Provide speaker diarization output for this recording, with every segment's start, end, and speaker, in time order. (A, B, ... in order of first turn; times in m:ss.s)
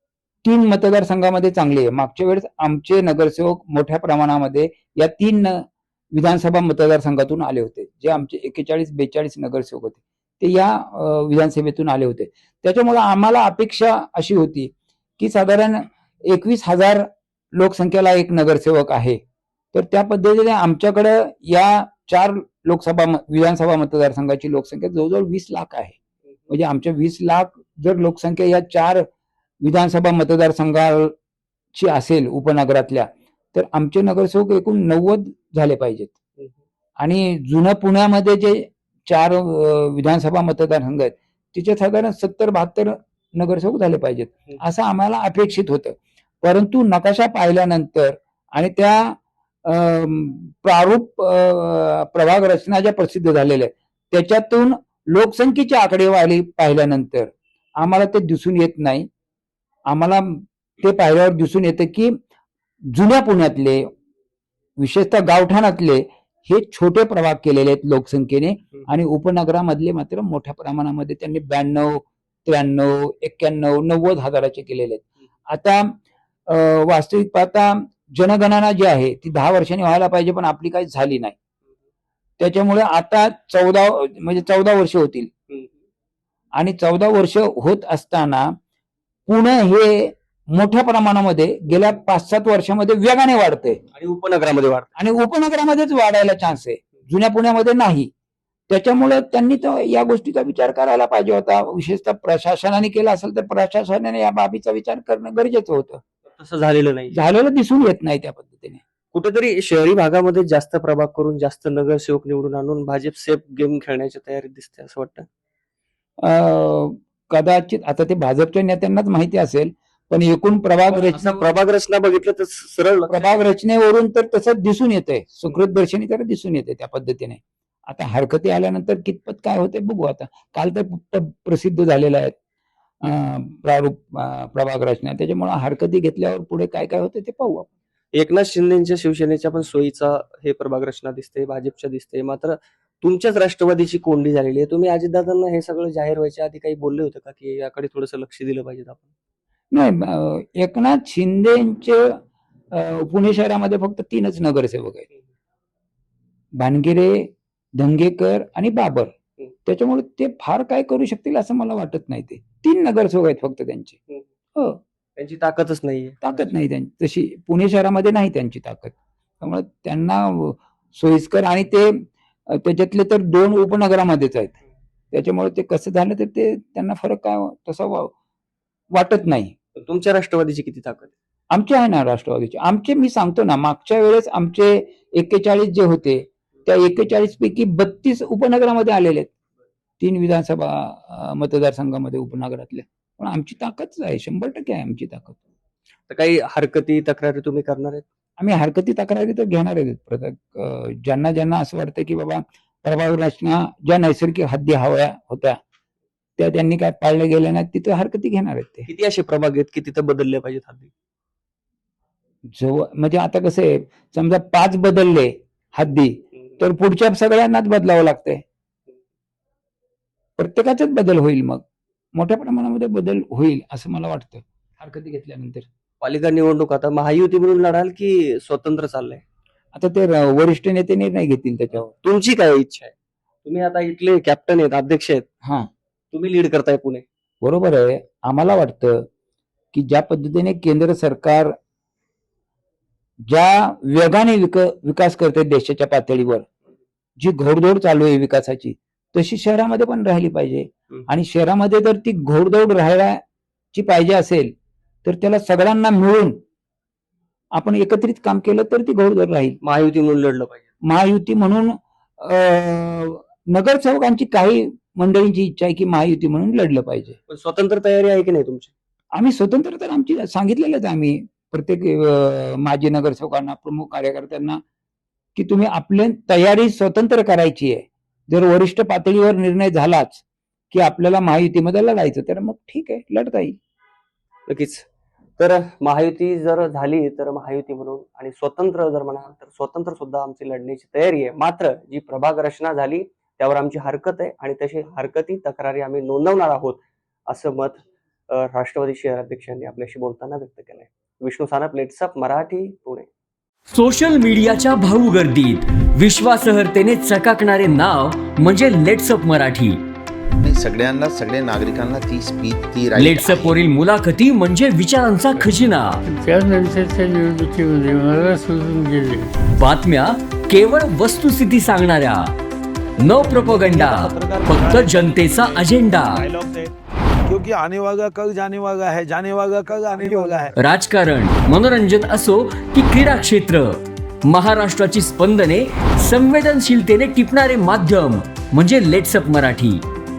0:00.4-0:19.2 A
0:19.7-0:26.0 A
0:26.5-0:29.1 A
0:29.6-0:31.1 A
0:31.7-0:36.1 A
0:37.0-0:59.0 A
0:59.9-1:02.1 A
1:02.9-1:03.9 A
1:04.8-1:15.9 A
1:16.5-1:21.3 A
1:22.4-1:25.3 A
1:26.6-1:28.5 A
1:29.3-1:33.8 A
1:33.9-1:34.9 B
1:35.0-1:38.1 A
1:38.7-1:46.0 A
1:46.3-1:47.2 B
1:47.1-1:48.8 A
1:49.1-1:55.3 B
1:56.2-2:01.5 A
2:00.9-2:03.4 B
2:03.1-2:12.4 A
2:13.0-2:17.7 A
2:18.1-2:29.1 B
2:29.7-2:32.2 A
2:32.7-2:35.1 A
2:36.6-2:39.1 A
2:39.6-2:44.0 A
2:45.2-2:46.4 B
2:46.2-2:54.6 A
2:55.1-2:58.1 A
2:58.9-2:59.5 A
2:59.8-3:01.1 B
3:01.5-3:09.3 A
3:10.0-3:15.4 A
3:16.1-3:18.0 B
3:18.4-3:25.6 A
3:26.4-3:28.9 A
3:28.9-3:30.9 B
3:32.5-3:38.4 A
3:40.4-3:41.6 A
3:42.1-3:45.6 A
3:46.0-3:49.2 B
3:49.7-3:51.9 A
3:51.9-3:52.9 B
3:53.4-3:55.3 B
3:55.4-3:55.7 A
3:56.1-3:57.0 B
3:57.4-3:59.0 A
3:59.7-4:01.5 A
4:03.3-4:06.4 A
4:07.2-4:13.2 A
4:13.7-4:14.5 A
4:15.0-4:16.4 A
4:17.6-4:19.6 A
4:19.6-4:20.6 B
4:20.9-4:27.2 A
4:27.3-4:28.7 B
4:29.1-4:34.6 A
4:35.3-4:43.6 A
4:44.5-4:44.8 B
4:45.4-5:03.1 B
5:03.7-5:09.8 C
5:10.4-5:13.6 D
5:12.9-5:16.0 C
5:16.0-5:19.3 E
5:19.6-5:22.3 C
5:23.0-5:26.3 C
5:23.1-5:26.7 F
5:27.2-5:30.5 F
5:30.6-5:39.8 C